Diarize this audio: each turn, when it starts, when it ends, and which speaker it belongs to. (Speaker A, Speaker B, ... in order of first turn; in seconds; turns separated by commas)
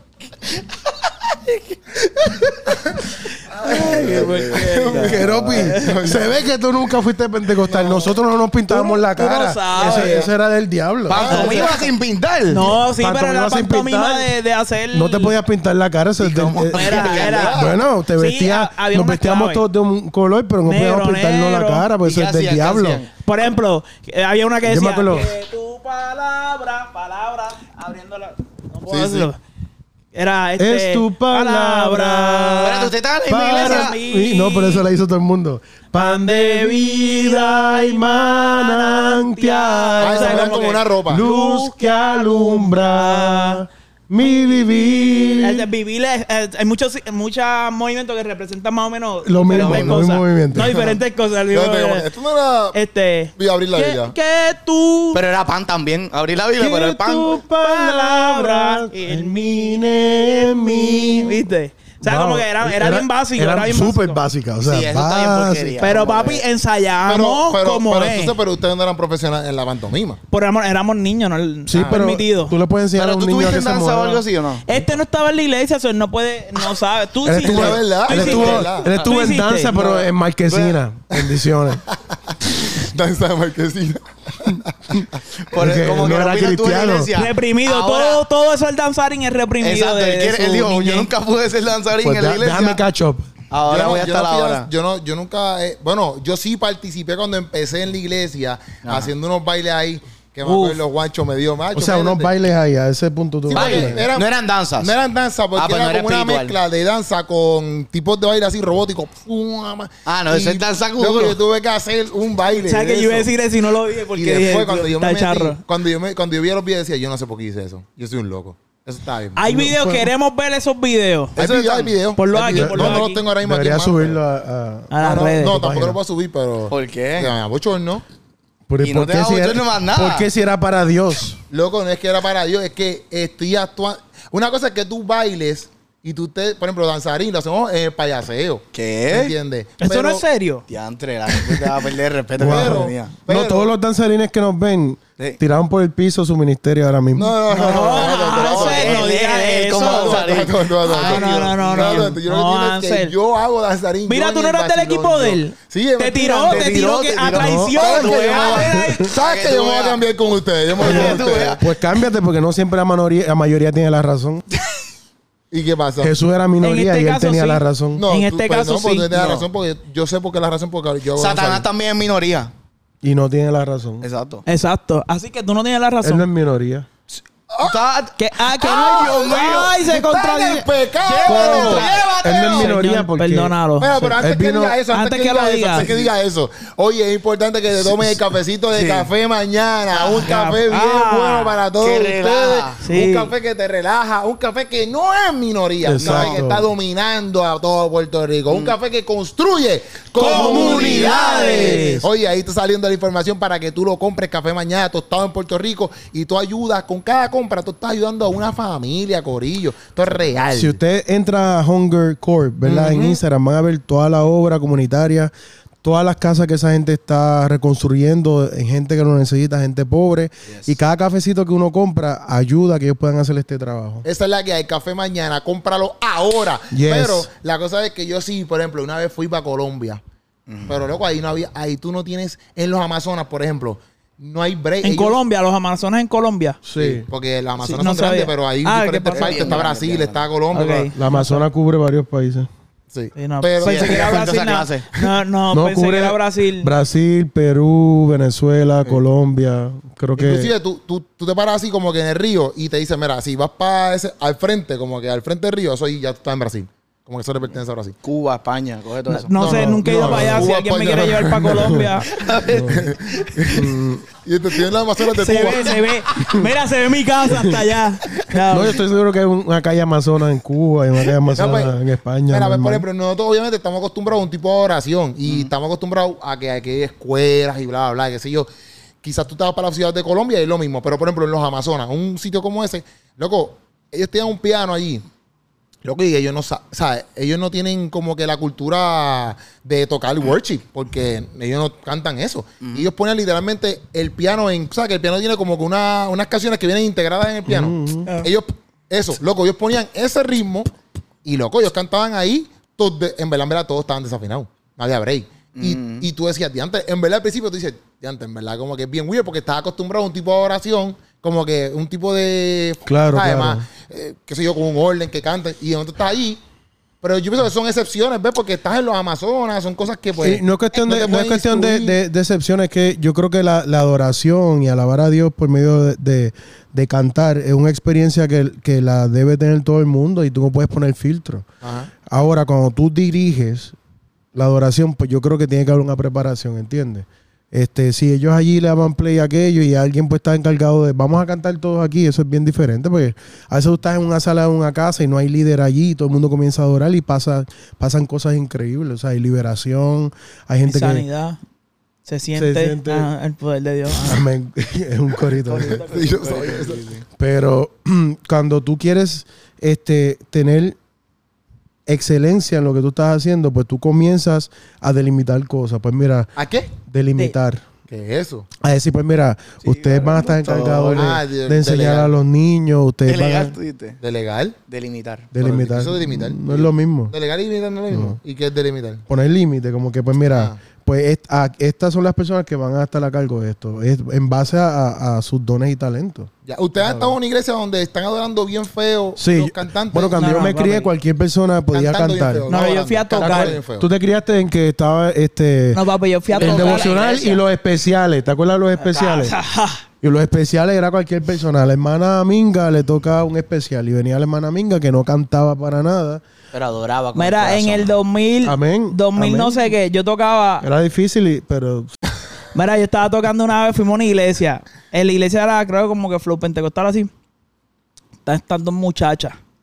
Speaker A: 3.6-6.0, Speaker B: 3.6-6.4, Speaker C: 4.0-5.7, Speaker D: 4.9-11.4, Speaker B: 7.7-8.1, Speaker A: 8.7-10.3, Speaker B: 9.8-10.3, Speaker C: 11.1-12.8, Speaker B: 11.1-11.9, Speaker A: 11.2-11.7, Speaker A: 12.5-15.3, Speaker D: 13.0-14.3, Speaker D: 14.9-23.0, Speaker C: 16.2-17.6, Speaker A: 16.7-17.6, Speaker B: 16.9-17.8, Speaker A: 18.1-19.6, Speaker A: 20.6-21.9, Speaker C: 22.0-23.1, Speaker A: 23.2-29.4, Speaker D: 24.7-25.3, Speaker B: 28.9-29.3, Speaker A: 30.1-34.8, Speaker D: 30.6-45.7, Speaker C: 32.6-34.0, Speaker A: 36.0-43.6, Speaker B: 40.0-41.3, Speaker A: 45.4-52.1, Speaker D: 49.2-50.9, Speaker C: 49.5-50.1, Speaker B: 51.5-52.8, Speaker A: 52.7-55.2, Speaker B: 53.4-54.1, Speaker C: 55.1-57.3, Speaker D: 56.6-61.4, Speaker A: 57.6-64.2, Speaker D: 62.0-65.8, Speaker C: 64.6-66.4, Speaker A: 65.8-68.4, Speaker B: 67.1-70.2, Speaker A: 70.3-72.5, Speaker D: 71.7-74.2, Speaker B: 71.7-72.1, Speaker C: 73.0-74.7, Speaker A: 74.7-79.7, Speaker D: 77.2-81.8, Speaker B: 77.4-78.9, Speaker C: 78.8-79.2, Speaker C: 79.7-80.8, Speaker B: 82.5-85.0, Speaker D: 85.0-87.1, Speaker C: 85.5-88.2, Speaker A: 87.2-91.1, Speaker C: 89.6-92.8, Speaker D: 92.0-93.3, Speaker C: 93.5-94.7, Speaker B: 93.7-102.3, Speaker C: 98.8-99.1, Speaker A: 100.4-100.8, Speaker D: 101.7-104.1, Speaker B: 103.5-113.3, Speaker C: 103.5-104.9, Speaker C: 105.6-106.6, Speaker C: 110.1-111.4, Speaker A: 112.6-115.6, Speaker B: 114.1-119.5, Speaker A: 119.4-123.2, Speaker D: 119.5-120.1, Speaker B: 121.4-124.2, Speaker D: 122.5-126.0, Speaker A: 124.9-125.6, Speaker B: 125.0-128.0, Speaker C: 126.7-127.3, Speaker D: 128.7-131.4, Speaker C: 128.8-130.3, Speaker B: 131.5-140.2, Speaker C: 138.7-139.3, Speaker A: 139.8-140.7, Speaker C: 140.7-143.2, Speaker A: 141.3-141.7, Speaker D: 142.4-147.7, Speaker B: 142.4-143.7, Speaker B: 147.1-149.1, Speaker A: 147.5-150.3, Speaker C: 147.7-152.1, Speaker B: 149.8-156.7, Speaker A: 150.9-153.1, Speaker A: 154.1-159.1, Speaker C: 156.4-160.0, Speaker D: 157.3-157.7, Speaker B: 157.8-161.6, Speaker C: 160.7-161.6, Speaker D: 160.8-164.4, Speaker B: 165.5-166.1, Speaker D: 166.0-168.1, Speaker A: 166.6-169.1, Speaker B: 167.9-171.7, Speaker C: 169.1-169.5, Speaker C: 171.2-172.5, Speaker D: 173.0-174.1, Speaker C: 174.0-174.4, Speaker A: 174.5-176.2, Speaker D: 176.0-176.9, Speaker B: 177.5-177.8, Speaker C: 177.6-179.8, Speaker A: 178.2-183.9, Speaker B: 178.6-182.0, Speaker C: 181.1-182.7, Speaker D: 182.2-184.8, Speaker B: 183.8-210.8, Speaker A: 184.9-185.9, Speaker C: 185.8-186.1, Speaker C: 188.7-189.1, Speaker A: 189.9-191.6, Speaker C: 191.8-192.8, Speaker A: 192.8-193.3, Speaker D: 195.8-196.7, Speaker C: 196.0-196.4, Speaker C: 198.5-198.8, Speaker A: 200.2-202.1, Speaker D: 200.2-202.0, Speaker C: 200.2-202.0, Speaker D: 210.5-215.3, Speaker B: 212.7-213.2, Speaker D: 215.8-224.1, Speaker B: 224.1-230.0, Speaker D: 226.7-227.3, Speaker C: 230.5-230.8, Speaker B: 230.7-235.2, Speaker A: 234.8-236.6, Speaker D: 236.6-237.1, Speaker B: 236.8-240.9, Speaker A: 237.6-239.6, Speaker C: 239.1-240.3, Speaker A: 240.5-241.4, Speaker D: 240.9-242.5, Speaker B: 242.9-244.3, Speaker A: 243.2-246.7, Speaker C: 243.6-244.9, Speaker D: 245.5-250.5, Speaker B: 250.2-258.0, Speaker C: 258.0-259.4, Speaker A: 259.1-262.1, Speaker B: 259.4-261.8, Speaker D: 259.4-260.5, Speaker D: 261.3-261.9, Speaker C: 262.1-263.6, Speaker D: 262.5-262.9, Speaker B: 262.7-263.7, Speaker D: 263.5-264.1, Speaker B: 264.2-265.9, Speaker A: 265.2-268.8, Speaker D: 268.5-272.9, Speaker B: 271.3-271.8, Speaker B: 272.3-278.5, Speaker B: 279.0-285.1, Speaker B: 285.8-300.7, Speaker C: 292.6-292.9, Speaker D: 297.5-298.1, Speaker B: 301.2-316.4, Speaker C: 305.6-306.1, Speaker D: 312.9-313.6, Speaker B: 317.0-321.9, Speaker D: 320.2-331.5, Speaker B: 331.6-331.9, Speaker D: 332.1-333.8, Speaker D: 334.4-351.1, Speaker A: 350.6-351.4, Speaker A: 352.1-354.2, Speaker D: 352.4-353.1, Speaker D: 354.0-355.8, Speaker C: 355.4-357.0, Speaker B: 355.6-356.9, Speaker D: 357.2-360.8, Speaker D: 361.9-366.3, Speaker B: 366.4-366.7, Speaker D: 366.8-367.6, Speaker B: 367.9-368.5, Speaker D: 368.6-373.6, Speaker C: 369.6-371.2, Speaker B: 370.9-372.1, Speaker C: 373.1-374.0, Speaker B: 374.0-374.6, Speaker C: 374.7-375.3, Speaker D: 375.3-377.1, Speaker B: 375.4-379.0, Speaker D: 377.9-378.2, Speaker D: 379.1-387.1, Speaker B: 380.3-380.6, Speaker B: 386.5-390.3, Speaker D: 389.2-392.5, Speaker A: 390.1-390.9, Speaker B: 391.7-393.9, Speaker A: 392.5-393.6, Speaker D: 393.2-395.8, Speaker A: 395.7-397.0, Speaker C: 396.3-397.4, Speaker D: 396.4-399.4, Speaker A: 398.8-399.8, Speaker D: 400.0-406.2, Speaker C: 406.5-408.0, Speaker A: 407.1-410.7, Speaker D: 408.4-409.6, Speaker D: 410.6-411.9, Speaker A: 412.5-417.1, Speaker A: 418.3-419.4